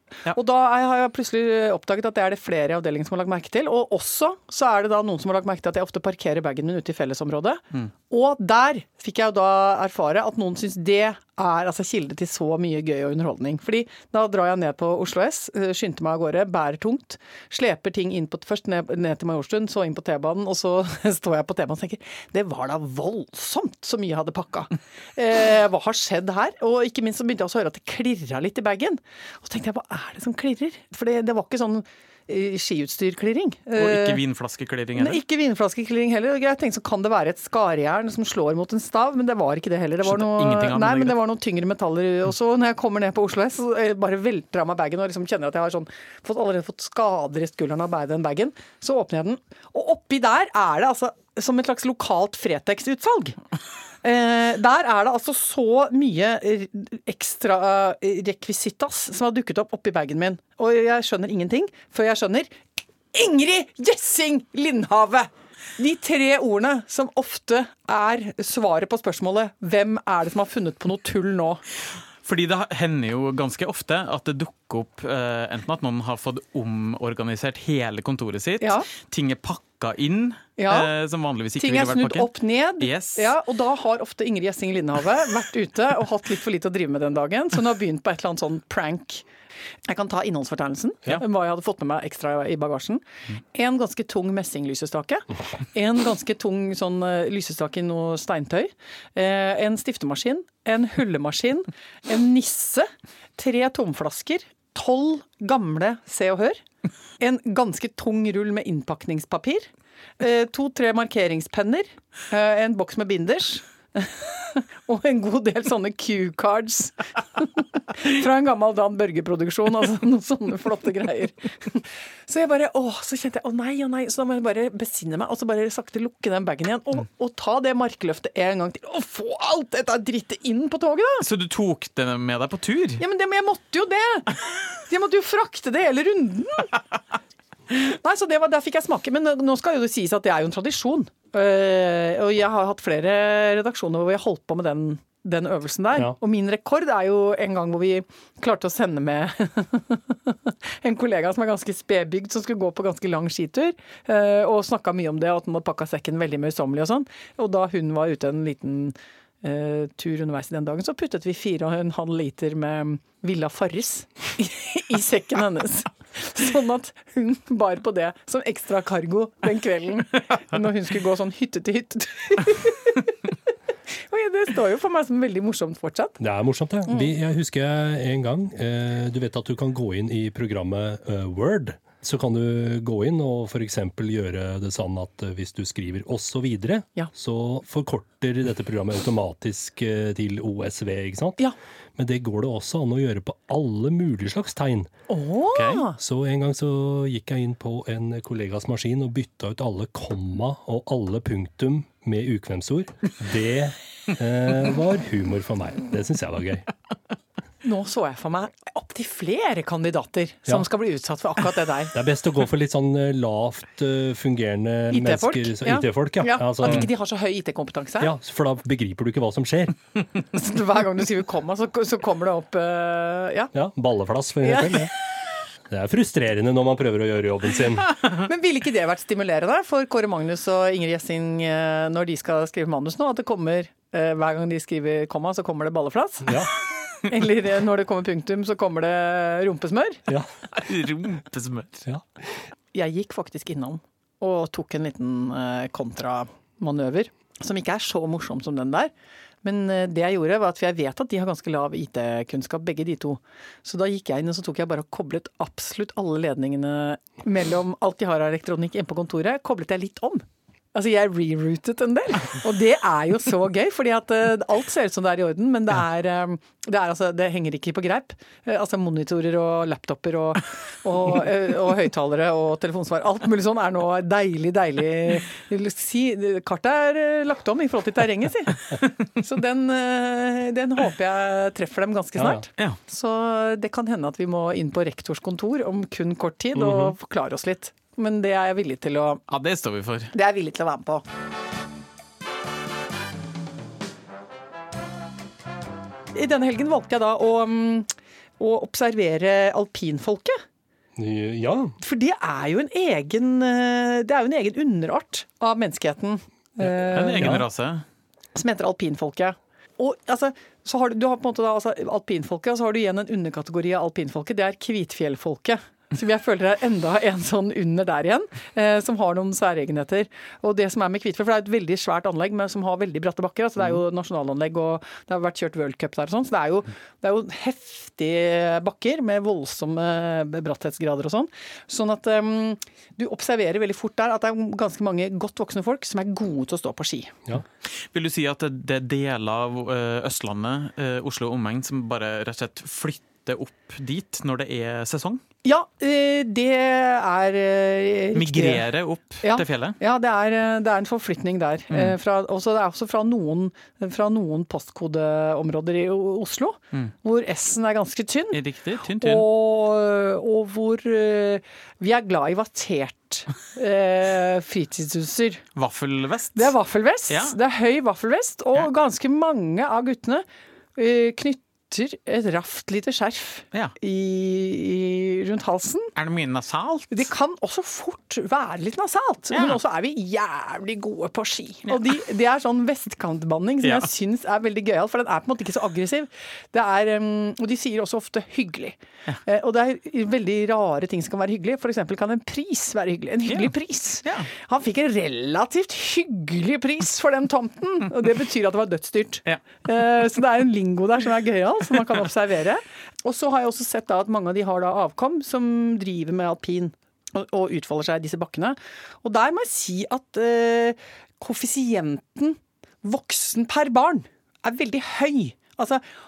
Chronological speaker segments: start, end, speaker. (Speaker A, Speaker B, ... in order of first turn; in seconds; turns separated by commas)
Speaker A: 0.3-34.2, Speaker B: 33.8-35.2, Speaker A: 35.0-53.4, Speaker B: 40.0-41.2, Speaker A: 54.0-62.6, Speaker A: 63.1-71.6, Speaker B: 72.2-83.3, Speaker A: 78.6-78.9, Speaker A: 80.6-80.9, Speaker A: 81.6-89.2, Speaker A: 89.9-106.6, Speaker A: 107.2-131.3, Speaker B: 131.2-133.0, Speaker A: 133.0-136.8, Speaker A: 137.7-173.1, Speaker A: 174.1-176.2, Speaker C: 176.2-191.4, Speaker C: 192.0-194.9, Speaker A: 195.1-196.0, Speaker B: 195.6-195.8, Speaker C: 195.9-206.7, Speaker A: 207.6-212.0, Speaker C: 211.9-216.9, Speaker A: 214.9-218.1, Speaker C: 218.0-219.8, Speaker A: 220.3-223.5, Speaker C: 223.5-224.9, Speaker A: 224.4-224.9, Speaker C: 225.7-227.9, Speaker A: 228.1-236.5, Speaker A: 237.0-240.0, Speaker B: 240.5-241.9, Speaker A: 242.7-248.9, Speaker A: 249.4-289.2, Speaker C: 282.2-282.4, Speaker C: 286.6-286.9, Speaker B: 289.3-290.1, Speaker A: 290.1-291.0, Speaker A: 296.1-300.4, Speaker C: 301.0-301.8, Speaker A: 301.8-307.4, Speaker B: 306.9-307.9, Speaker C: 307.2-307.4, Speaker A: 308.4-337.1, Speaker B: 337.7-345.2, Speaker A: 345.4-348.6, Speaker B: 348.1-349.8, Speaker A: 349.2-365.4, Speaker B: 351.7-352.0, Speaker B: 358.3-359.3, Speaker B: 365.6-366.5, Speaker A: 366.4-370.2, Speaker B: 367.1-367.4, Speaker A: 370.8-375.9, Speaker B: 376.0-377.1, Speaker A: 376.9-415.8, Speaker B: 379.3-379.6, Speaker B: 383.6-383.9